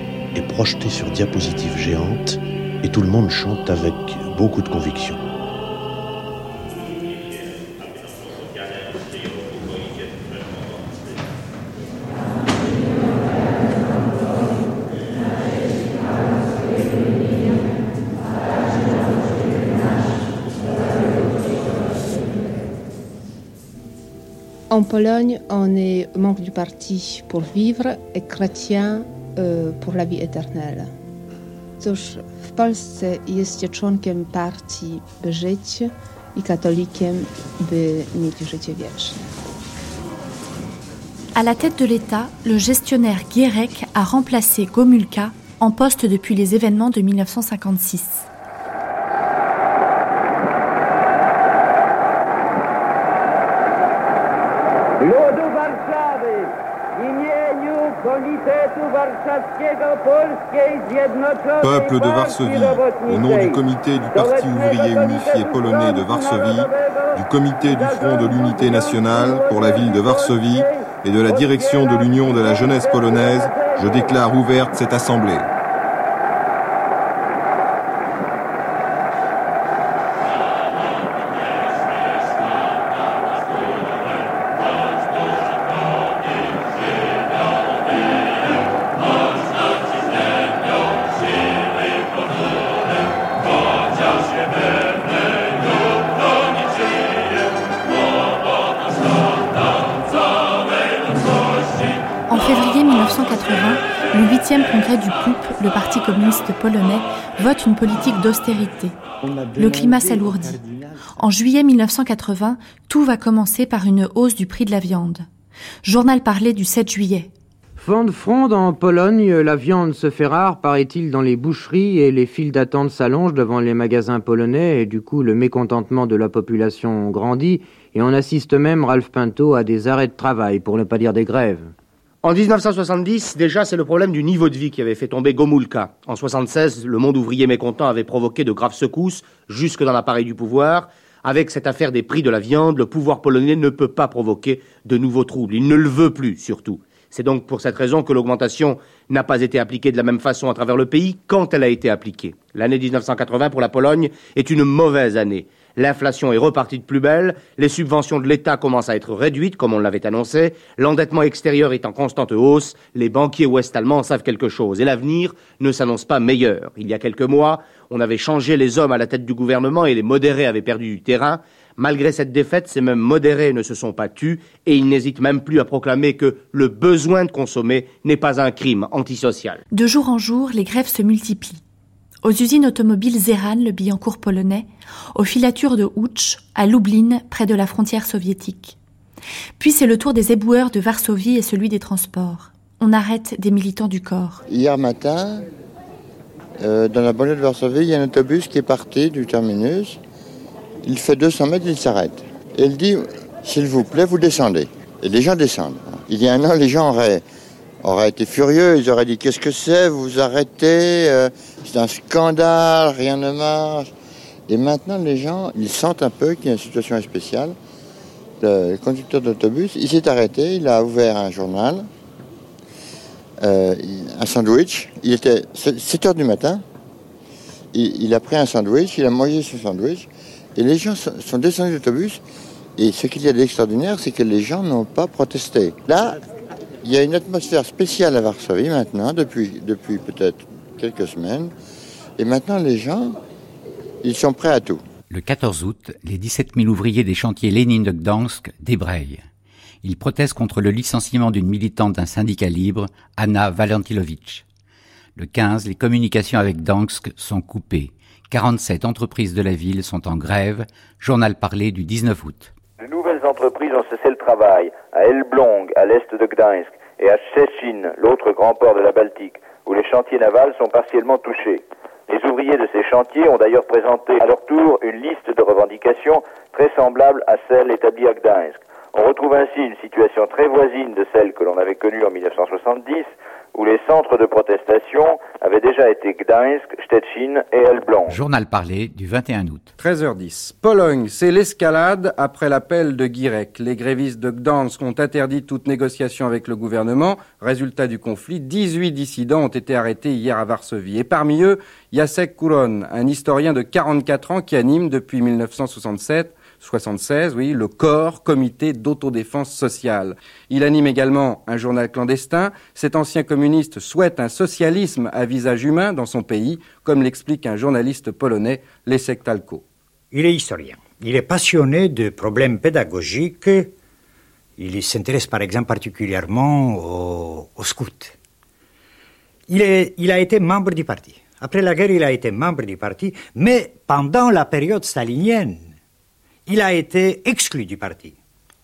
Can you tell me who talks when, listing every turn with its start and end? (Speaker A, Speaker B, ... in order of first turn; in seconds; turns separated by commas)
Speaker A: 0.3-5.2, Speaker B: 24.7-30.9, Speaker B: 31.8-39.3, Speaker C: 41.3-48.3, Speaker D: 61.6-75.5, Speaker C: 102.3-109.0, Speaker C: 109.5-115.2, Speaker C: 115.8-117.3, Speaker E: 117.8-131.7, Speaker F: 132.2-179.6, Speaker C: 179.7-181.6, Speaker C: 182.2-188.8, Speaker C: 189.6-194.4, Speaker G: 194.5-195.4, Speaker G: 196.6-200.0, Speaker G: 200.8-207.2, Speaker G: 207.8-213.9, Speaker G: 214.5-217.6, Speaker G: 218.4-221.9, Speaker G: 223.4-226.6, Speaker G: 227.7-232.2, Speaker G: 232.8-236.2, Speaker G: 236.8-241.5, Speaker G: 242.2-243.2, Speaker G: 244.0-244.8, Speaker H: 245.1-249.2, Speaker H: 249.8-254.4, Speaker H: 255.2-262.5, Speaker I: 262.8-288.2, Speaker H: 288.1-289.7, Speaker J: 289.8-319.6, Speaker K: 320.1-323.7, Speaker K: 324.6-328.1, Speaker K: 329.5-335.8, Speaker K: 336.4-338.2